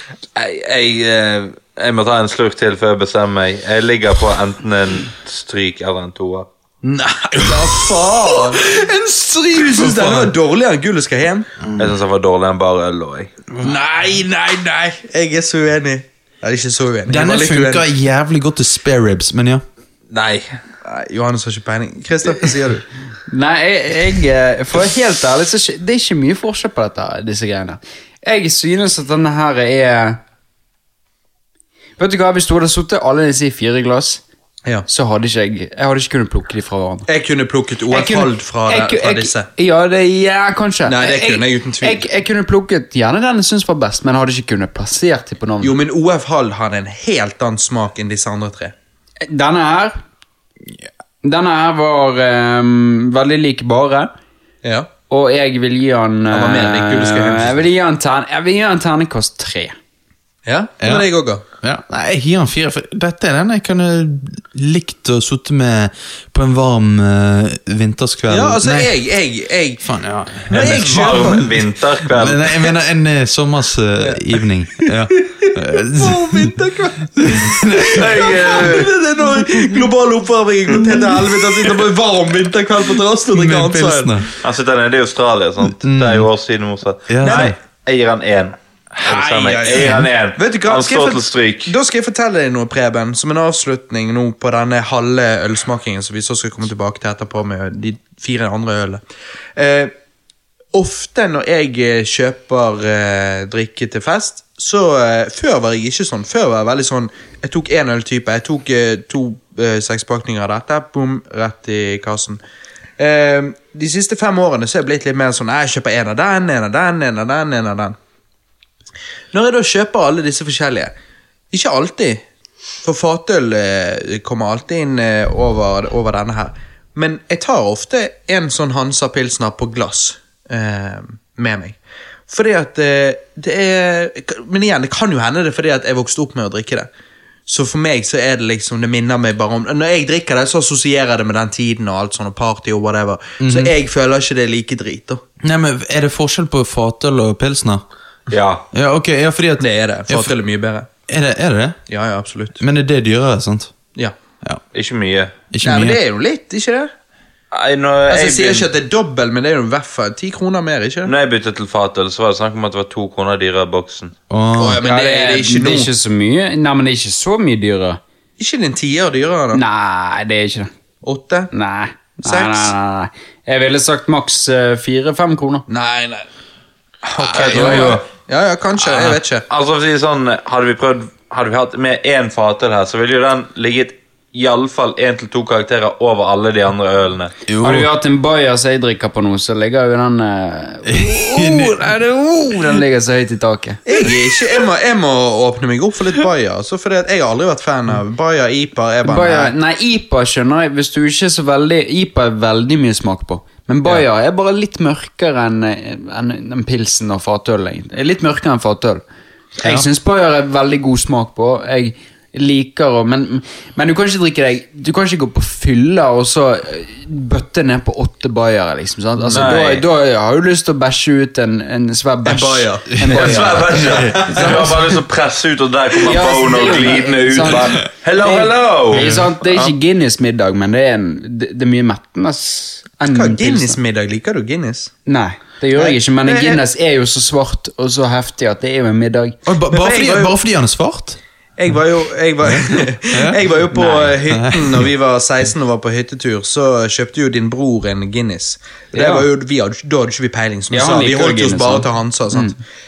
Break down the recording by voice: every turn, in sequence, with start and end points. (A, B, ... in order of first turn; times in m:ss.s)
0:00.3-0:06.5 A
0:06.8-0:11.5 B
0:09.6-0:10.3 C
0:11.8-0:13.3 A
0:13.6-0:17.9 B
0:17.1-0:19.6 C
0:20.1-0:20.6 A
0:20.8-0:22.8 B
0:23.3-0:30.2 D
0:32.0-0:34.2 D
0:34.9-0:37.0 D
0:37.0-0:39.5 B
0:37.9-0:45.8 D
0:40.8-0:42.0 B
0:45.6-0:48.7 B
0:49.2-0:50.0 D
0:51.2-0:54.1 D
0:54.6-0:54.9 B
0:55.1-0:59.7 D
0:56.3-0:57.6 B
1:00.4-1:01.4 B
1:00.8-1:01.1 C
1:01.6-1:08.9 C
1:08.3-1:09.8 B
1:09.8-1:16.5 C
1:10.5-1:11.5 B
1:10.5-1:12.7 A
1:14.8-1:24.2 B
1:17.1-1:18.5 C
1:17.9-1:18.9 A
1:23.3-1:24.3 C
1:24.4-1:31.7 A
1:25.6-1:26.3 C
1:27.1-1:27.5 C
1:27.2-1:27.5 B
1:29.0-1:30.1 C
1:30.4-1:39.0 B
1:39.6-1:39.9 B
1:40.7-1:52.4 B
1:53.0-1:58.0 B
1:59.3-2:00.9 B
2:01.5-2:02.2 B
2:02.8-2:11.8 B
2:12.3-2:16.9 B
2:17.5-2:25.2 B
2:23.4-2:23.7 C
2:25.4-2:27.8 C
2:28.3-2:28.6 A
2:28.7-2:30.3 C
2:29.6-2:30.9 B
2:31.1-2:31.8 C
2:31.9-2:32.6 B
2:32.6-2:33.7 C
2:34.7-2:35.3 A
2:35.5-2:36.0 C
2:35.6-2:36.9 B
2:37.5-2:38.7 A
2:38.1-2:41.1 B
2:41.0-2:44.1 A
2:44.3-2:44.8 C
2:44.6-2:45.9 B
2:44.8-2:48.0 D
2:48.4-2:49.6 B
2:49.5-2:50.7 D
2:51.0-2:51.5 B
2:51.5-2:55.6 D
2:52.2-2:52.7 B
2:55.7-2:56.2 B
2:57.1-2:59.4 B
2:57.2-2:58.0 A
2:57.2-2:58.0 C
2:58.8-3:07.3 A
3:07.5-3:07.9 C
3:07.6-3:13.8 D
3:10.8-3:11.9 C
3:13.8-3:19.5 B
3:19.0-3:29.0 D
3:29.6-3:44.7 D
3:29.6-3:29.8 C
3:39.3-3:39.9 A
3:42.2-3:44.1 B
3:43.0-3:44.7 C
3:43.1-3:49.7 A
3:46.0-3:53.8 D
3:48.9-3:49.3 C
3:53.0-3:54.9 B
3:55.0-3:59.4 D
3:55.7-3:56.6 B
3:59.4-4:01.2 C
3:59.7-4:00.3 B
4:01.6-4:12.5 B
4:02.4-4:03.4 C
4:03.7-4:04.2 D
4:04.3-4:04.9 C
4:08.9-4:09.2 D
4:10.7-4:12.6 D